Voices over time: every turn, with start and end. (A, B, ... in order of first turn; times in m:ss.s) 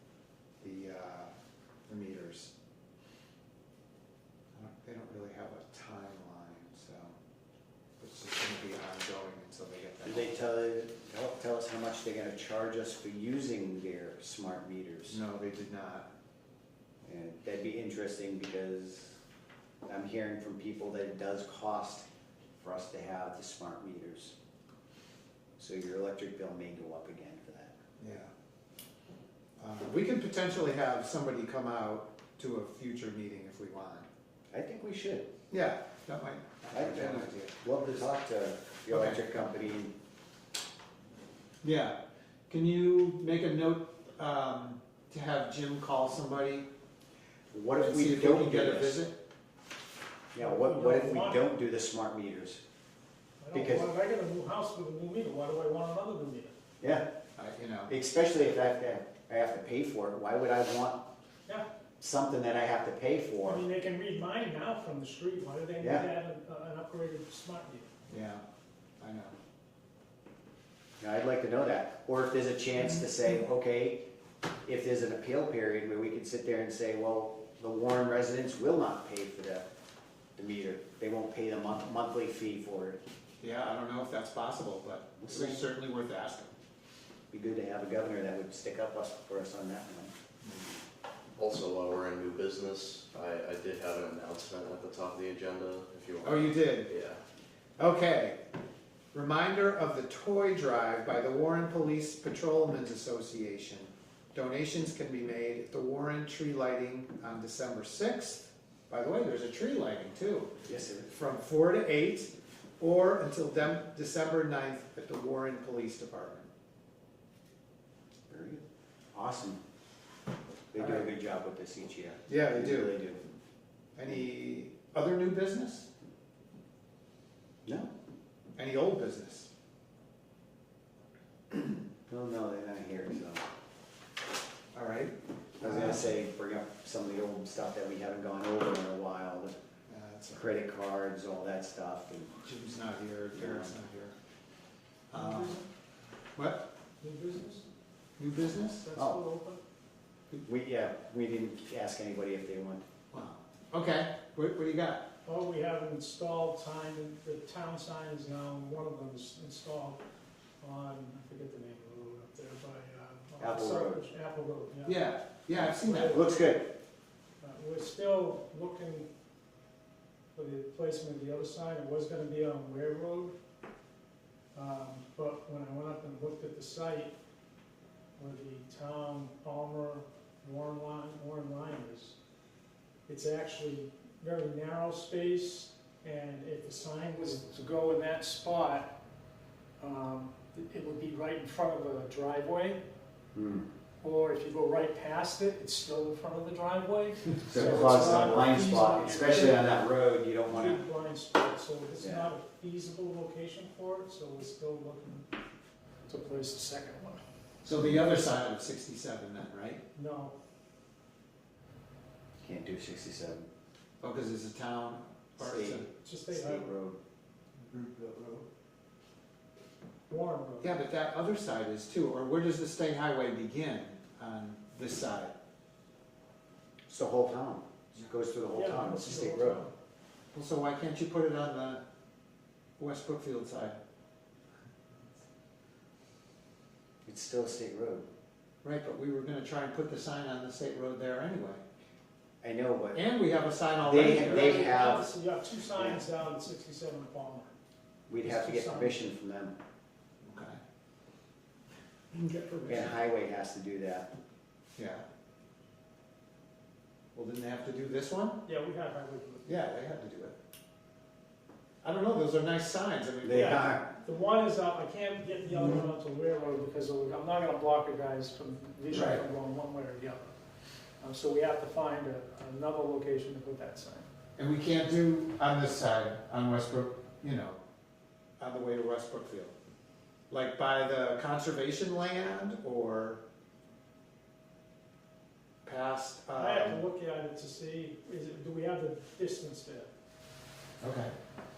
0:00.6-0:01.3 A
0:01.9-0:02.5 A
0:04.5-0:07.2 A
0:08.0-0:10.4 A
0:10.0-0:15.2 B
0:15.1-0:16.1 A
0:17.0-0:19.2 B
0:19.9-0:22.0 B
0:22.6-0:24.3 B
0:25.6-0:27.7 B
0:28.0-0:28.3 A
0:29.6-0:34.1 A
0:34.5-0:35.3 B
0:35.5-0:37.6 A
0:36.7-0:39.9 B
0:38.9-0:39.2 A
0:41.6-0:41.9 A
0:42.5-0:46.7 A
0:47.5-0:49.0 B
0:47.8-0:49.2 A
0:50.3-0:52.6 B
0:50.4-0:51.4 C
0:53.4-0:56.5 C
0:53.5-0:53.9 B
0:56.8-0:57.1 B
0:57.4-0:57.9 A
0:57.9-1:01.0 B
1:02.0-1:03.6 B
1:03.4-1:07.9 C
1:05.8-1:06.1 B
1:08.1-1:08.4 A
1:09.0-1:09.4 A
1:11.0-1:14.0 B
1:14.6-1:19.6 B
1:20.4-1:23.0 B
1:23.4-1:26.5 A
1:25.2-1:25.6 B
1:27.3-1:30.1 B
1:30.4-1:30.7 A
1:31.4-1:37.2 D
1:36.2-1:36.9 A
1:37.8-1:38.4 A
1:39.1-1:56.5 A
1:50.6-1:51.1 B
1:58.3-1:59.6 B
2:00.7-2:03.2 B
2:00.8-2:01.1 A
2:02.3-2:02.9 A
2:04.0-2:05.9 A
2:07.6-2:07.9 B
2:08.6-2:09.5 A
2:11.5-2:13.4 B
2:14.7-2:16.1 A
2:15.6-2:19.6 B
2:19.9-2:20.4 A
2:20.3-2:22.4 B
2:22.4-2:24.1 A
2:23.3-2:23.7 B
2:25.1-2:25.6 A
2:25.1-2:25.6 C
2:26.4-2:26.6 A
2:27.0-2:27.7 C
2:28.2-2:28.9 A
2:28.8-2:29.6 C
2:28.9-2:29.2 B
2:30.4-2:32.8 B
2:33.1-2:35.1 A
2:35.2-2:40.0 C
2:40.6-2:45.1 C
2:43.4-2:44.0 B
2:44.8-2:46.2 A
2:45.8-2:46.3 C
2:46.0-2:46.7 B
2:47.4-2:49.1 C
2:50.3-2:53.3 C
2:54.5-2:57.1 C
2:58.2-3:02.1 C
3:03.1-3:08.9 C
3:09.8-3:12.8 C
3:13.3-3:13.7 B
3:14.0-3:19.8 C
3:17.5-3:20.8 B
3:20.5-3:25.3 C
3:22.0-3:22.3 B
3:26.1-3:27.2 C
3:27.6-3:29.8 A
3:29.9-3:30.3 C
3:32.4-3:33.5 B
3:34.0-3:35.9 A
3:35.4-3:37.0 B
3:36.0-3:36.7 C
3:37.7-3:38.4 A
3:40.1-3:40.7 C
3:40.6-3:45.3 A
3:46.9-3:49.6 B
3:48.5-3:49.7 C
3:50.3-3:51.8 A
3:52.8-3:53.8 A
3:57.0-3:58.1 B
3:58.6-4:01.6 A
4:02.4-4:03.0 B
4:02.9-4:04.7 A
4:03.8-4:05.1 B
4:04.0-4:07.5 C
4:05.7-4:06.0 B
4:08.1-4:09.6 B
4:08.2-4:09.0 C
4:10.2-4:10.6 A
4:12.1-4:12.8 A
4:12.7-4:14.1 B
4:14.8-4:15.0 A
4:17.1-4:18.4 A
4:18.4-4:19.5 C
4:19.4-4:20.4 A
4:21.8-4:23.6 A
4:23.2-4:23.9 B
4:23.3-4:30.3 C
4:25.5-4:25.8 A
4:28.9-4:29.2 A
4:31.0-4:34.1 C
4:34.4-4:37.6 A
4:38.4-4:39.5 A
4:40.3-4:43.2 A
4:45.6-4:46.8 A
4:46.3-4:49.9 C
4:50.8-4:51.1 A